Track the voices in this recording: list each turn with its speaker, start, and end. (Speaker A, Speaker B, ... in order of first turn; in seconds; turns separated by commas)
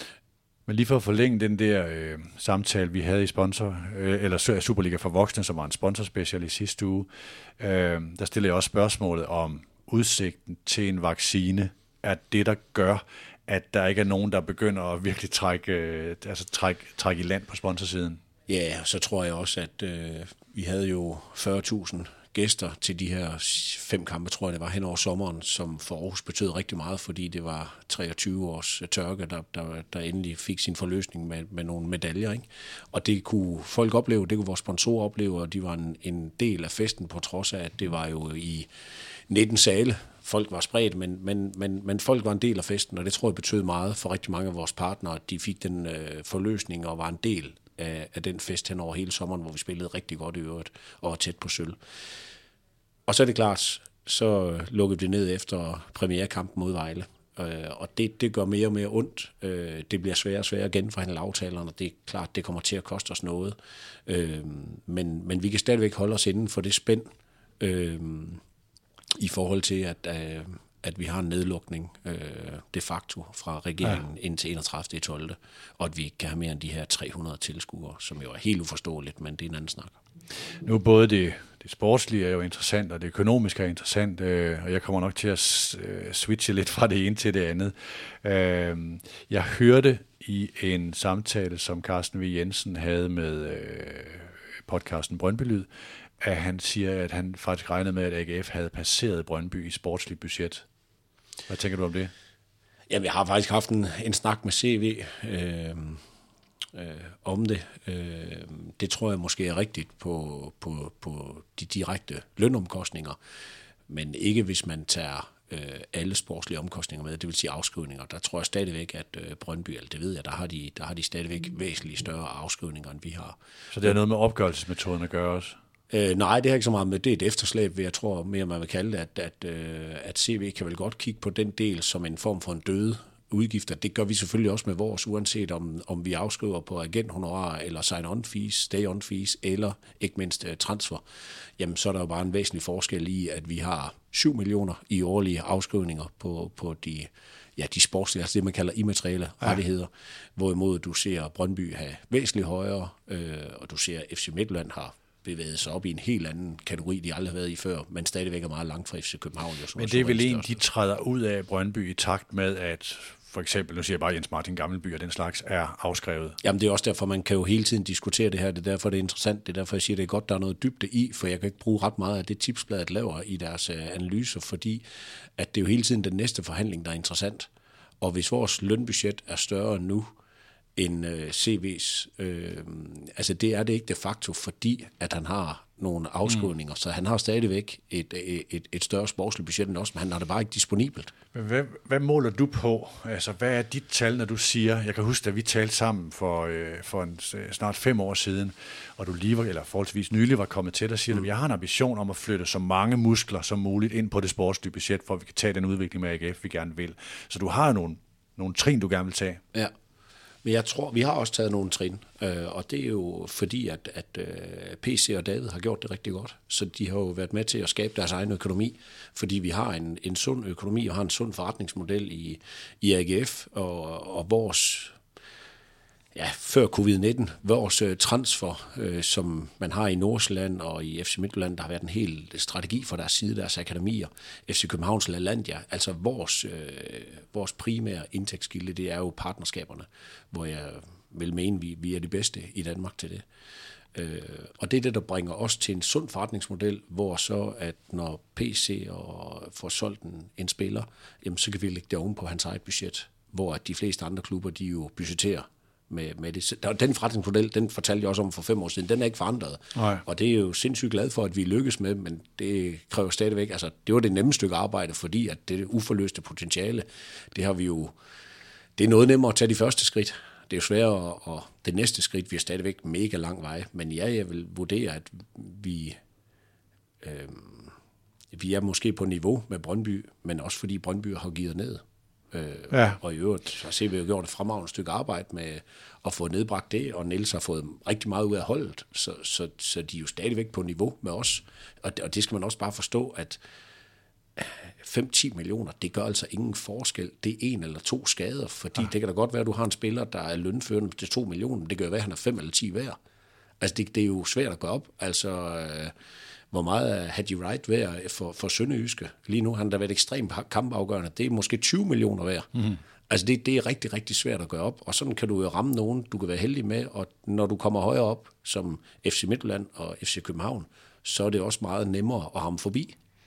Speaker A: 0.7-18.2, Speaker B: 18.5-38.7, Speaker B: 39.3-51.8, Speaker B: 53.1-68.4, Speaker B: 69.2-80.0, Speaker A: 80.6-95.7, Speaker A: 96.2-100.6, Speaker A: 101.5-102.1, Speaker B: 102.9-106.0, Speaker B: 106.7-113.2, Speaker B: 113.9-123.9, Speaker A: 123.7-125.6, Speaker B: 125.9-141.0, Speaker B: 141.6-160.6, Speaker A: 159.8-166.4, Speaker B: 166.4-174.8, Speaker B: 175.4-177.5, Speaker B: 178.0-180.1, Speaker B: 180.8-191.1, Speaker A: 191.3-209.4, Speaker B: 210.4-225.0, Speaker B: 226.1-243.2, Speaker B: 243.9-267.9, Speaker A: 259.7-260.0, Speaker B: 268.8-276.0, Speaker B: 277.0-277.7, Speaker B: 278.3-293.4, Speaker A: 282.7-283.0, Speaker B: 294.4-303.0, Speaker B: 303.6-305.9, Speaker B: 306.5-312.5, Speaker B: 313.1-323.0